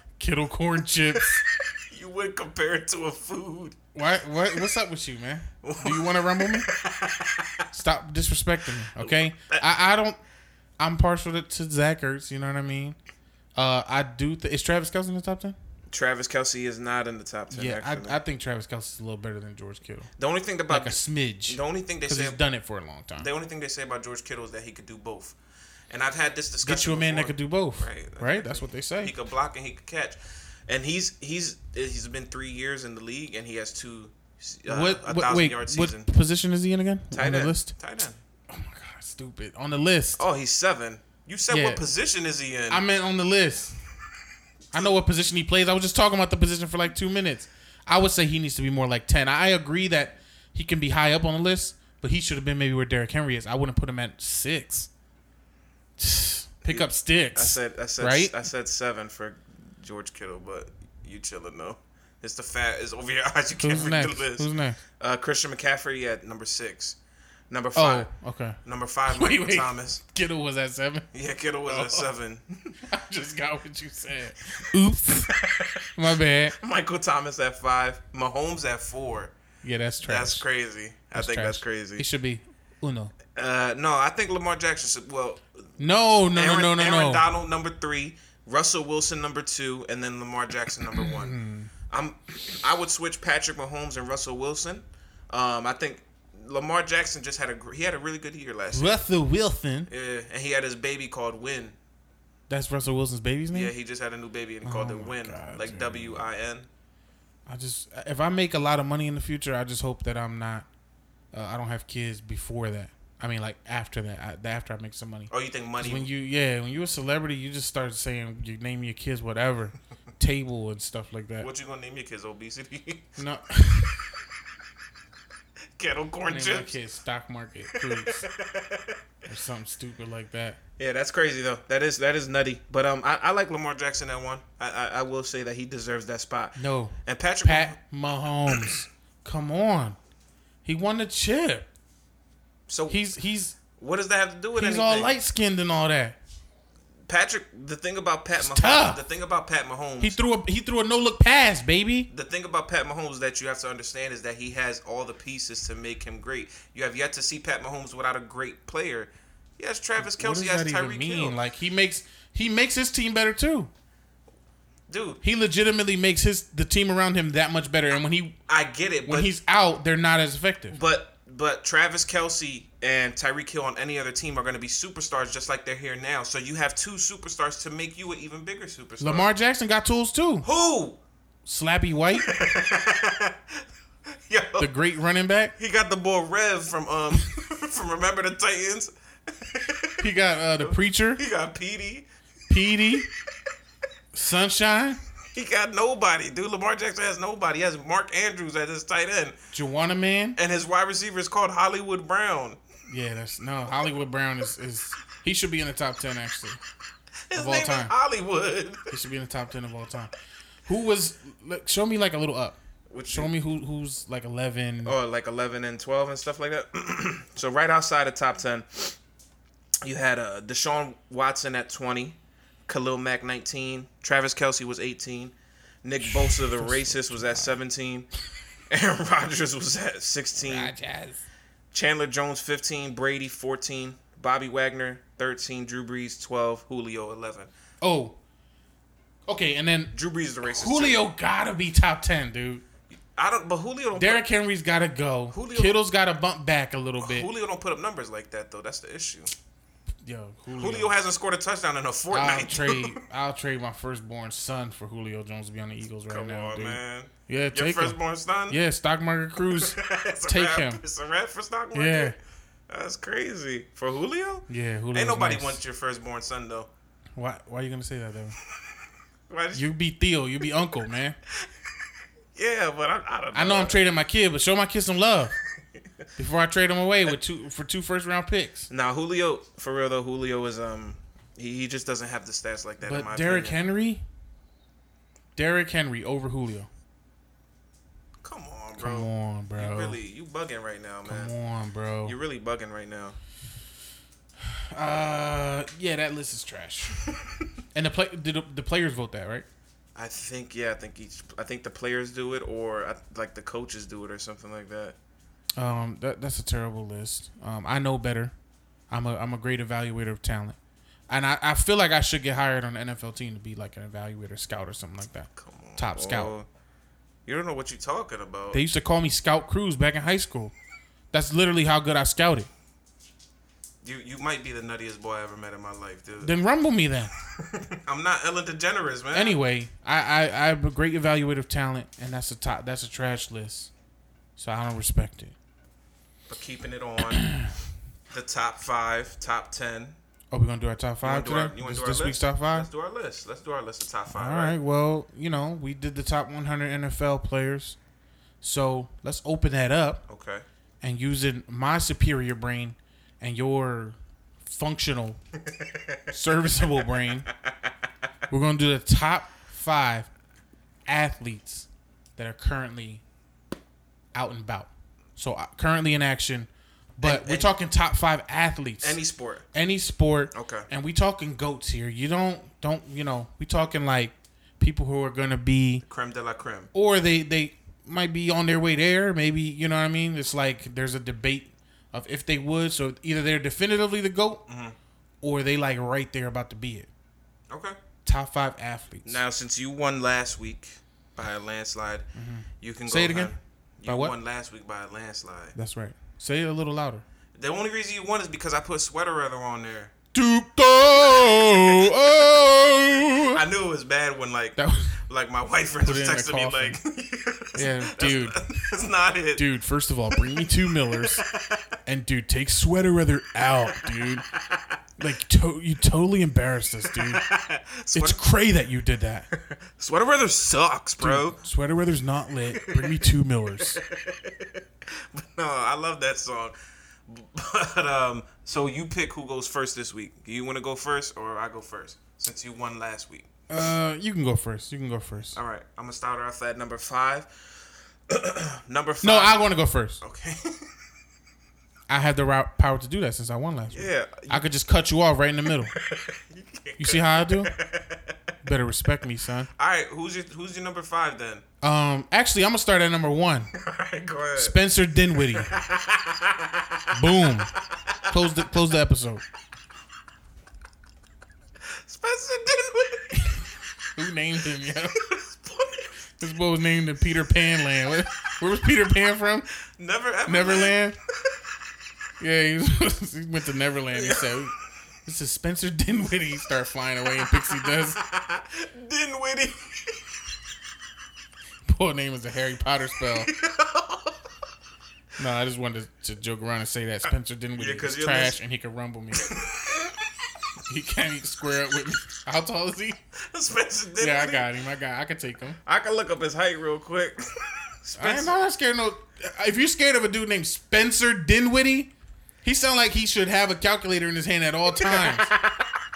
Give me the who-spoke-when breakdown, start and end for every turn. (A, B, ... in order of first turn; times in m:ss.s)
0:00.2-0:01.4 A
0:01.1-0:03.8 B
0:03.9-0:06.7 A
0:05.6-0:07.6 B
0:07.7-0:10.2 A
0:09.0-0:09.6 B
0:10.8-0:13.0 A
0:13.6-0:15.6 A
0:15.9-0:18.2 B
0:17.5-0:20.1 A
0:20.2-0:22.4 B
0:20.7-0:23.3 A
0:23.2-0:25.4 B
0:25.9-0:36.1 B
0:26.6-0:29.1 A
0:34.7-0:37.7 A
0:37.1-0:38.2 B
0:38.5-0:40.2 A
0:40.2-0:42.8 B
0:41.5-0:41.8 A
0:42.7-0:43.7 A
0:44.7-0:54.9 A
0:56.0-0:58.3 A
0:56.6-1:04.5 B
1:03.6-1:04.8 A
1:05.0-1:07.0 B
1:07.5-1:08.1 B
1:07.7-1:11.1 A
1:08.6-1:10.0 B
1:11.1-1:12.7 B
1:11.7-1:12.1 A
1:12.8-1:15.3 A
1:15.3-1:15.8 B
1:16.0-1:16.5 A
1:16.6-1:19.3 B
1:19.6-1:20.4 A
1:20.0-1:22.0 B
1:21.1-1:23.1 A
1:23.3-1:25.4 B
1:25.8-1:27.2 A
1:26.3-1:31.4 B
1:31.0-1:31.7 A
1:31.9-1:39.0 B
1:38.7-1:39.9 A
1:39.9-1:41.8 B
1:42.5-1:43.7 A
1:43.5-1:46.7 B
1:44.6-1:46.2 A
1:47.5-1:50.7 A
1:51.3-2:01.5 A
1:55.3-1:56.1 B
2:01.4-2:03.1 B
2:03.2-2:04.0 A
2:05.8-2:06.7 B
2:06.3-2:08.2 A
2:07.7-2:09.0 B
2:09.2-2:10.6 A
2:10.8-2:17.8 B
2:16.6-2:20.0 A
2:18.5-2:18.8 B
2:20.6-2:21.7 A
2:22.7-2:23.0 B
2:22.9-2:23.6 A
2:23.8-2:25.2 B
2:24.5-2:26.2 A
2:27.1-2:30.2 B
2:28.4-2:29.0 A
2:30.0-2:32.1 A
2:32.1-2:41.4 B
2:40.0-2:43.7 A
2:44.9-2:45.2 B
2:45.2-2:48.4 A
2:48.5-2:49.3 B
2:49.1-2:50.8 A
2:50.7-2:59.3 B
2:59.0-3:00.5 A
3:00.4-3:01.0 B
3:01.4-3:02.3 A
3:02.1-3:03.4 B
3:04.3-3:04.7 B
3:04.6-3:05.5 A
3:05.6-3:10.1 B
3:10.0-3:11.2 A
3:10.6-3:12.1 B
3:12.5-3:13.1 A
3:14.1-3:15.0 A
3:15.3-3:19.4 B
3:19.5-3:20.4 A
3:20.4-3:22.6 B
3:22.9-3:26.6 A
3:27.3-3:28.9 B
3:27.3-3:27.9 A
3:28.9-3:30.1 A
3:30.6-3:32.6 A
3:32.9-3:33.3 B
3:33.1-3:34.9 A
3:34.8-3:39.0 B
3:39.8-3:48.1 B
3:46.0-3:47.6 A
3:48.7-3:50.7 B
3:50.4-3:51.2 A
3:51.7-3:57.5 B
3:57.8-3:58.2 A
3:59.3-3:59.9 A
3:59.9-4:01.0 B
4:00.4-4:02.6 A
4:03.1-4:04.2 B
4:03.9-4:07.3 A
4:05.3-4:05.8 B
4:07.0-4:09.3 B
4:10.0-4:10.9 A
4:10.5-4:13.0 B
4:12.1-4:18.0 A
4:16.1-4:18.6 B
4:18.5-4:20.8 A
4:19.5-4:22.2 B
4:21.7-4:22.2 A
4:22.7-4:26.7 B
4:24.5-4:25.6 A
4:27.2-4:28.4 A
4:29.3-4:29.7 B
4:29.5-4:31.2 A
4:32.3-4:33.8 B
4:33.3-4:35.3 A
4:36.2-4:38.7 A
4:38.7-4:43.6 B
4:42.8-4:44.0 A
4:45.4-4:46.7 A
4:48.2-4:51.3 B
4:48.8-4:50.0 A
4:51.0-4:52.2 A
4:52.0-4:53.2 B
4:54.4-4:57.0 A
4:57.7-4:59.4 A
4:59.9-5:05.0 B
5:05.6-5:08.3 A
5:08.9-5:10.6 A
5:11.1-5:16.3 A
5:15.4-5:16.5 B
5:17.2-5:18.6 B
5:18.5-5:20.5 A
5:21.1-5:22.5 A
5:23.8-5:26.3 B
5:26.2-5:27.1 A
5:27.4-5:29.4 B
5:29.1-5:33.7 A
5:34.4-5:35.3 A
5:36.3-5:37.3 B
5:37.1-5:37.5 A
5:38.1-5:40.0 B
5:40.3-5:42.7 A
5:41.0-5:44.6 B
5:44.1-5:47.8 A
5:48.4-5:50.0 A
5:50.1-5:50.4 B
5:50.8-5:55.2 A
5:55.5-5:56.0 B
5:56.1-5:57.3 A
5:56.6-5:57.7 B
5:58.3-6:00.1 A
6:00.9-6:03.0 A
6:04.1-6:09.0 A
6:07.0-6:07.5 B
6:08.8-6:09.4 B
6:09.5-6:15.8 A
6:10.3-6:10.7 B
6:15.8-6:16.7 B
6:16.7-6:24.4 A
6:24.5-6:24.8 B
6:25.2-6:26.9 A
6:27.5-6:27.8 B
6:28.0-6:29.2 A
6:29.0-6:32.0 B
6:32.2-6:33.3 A
6:32.6-6:35.5 B
6:33.8-6:34.1 A
6:35.6-6:37.0 A
6:37.3-6:39.9 B
6:40.1-6:43.4 A
6:41.0-6:42.0 B
6:43.3-6:49.5 B
6:44.6-6:44.9 A
6:45.8-6:46.8 A
6:47.5-6:48.4 A
6:49.3-6:51.2 A
6:50.1-6:51.6 B
6:51.8-6:54.2 A
6:55.0-6:57.2 A
6:56.9-6:58.2 B
6:57.9-6:59.3 A
6:59.3-7:01.4 B
7:01.0-7:03.8 A
7:02.5-7:03.0 B
7:03.7-7:06.5 B
7:07.1-7:13.6 B
7:13.5-7:15.4 A
7:15.3-7:17.3 B
7:18.1-7:19.5 B
7:19.0-7:20.0 A
7:20.0-7:20.7 B
7:21.9-7:25.7 A
7:23.7-7:24.4 B
7:25.6-7:28.1 B
7:26.8-7:27.5 A
7:28.4-7:29.5 A
7:29.6-7:31.4 B
7:31.6-7:33.5 A
7:33.5-7:34.6 B
7:34.4-7:35.5 A
7:35.2-7:38.2 B
7:36.9-7:37.5 A
7:38.1-7:39.2 A
7:41.6-7:43.3 B
7:44.0-7:45.0 A
7:45.0-7:45.9 B
7:46.2-7:49.5 A
7:49.8-7:50.8 B
7:50.2-7:51.0 A
7:52.2-7:54.5 A
7:53.9-7:54.5 B
7:55.0-7:58.0 A
7:57.3-8:00.1 B
8:01.6-8:03.3 A
8:03.1-8:04.2 B
8:05.2-8:09.3 A
8:07.6-8:08.4 B
8:09.2-8:09.9 B
8:10.7-8:13.0 A
8:13.2-8:14.5 B
8:14.0-8:15.6 A
8:15.6-8:17.2 B
8:17.8-8:18.3 B
8:18.0-8:21.9 A
8:22.4-8:25.3 A
8:24.8-8:25.7 B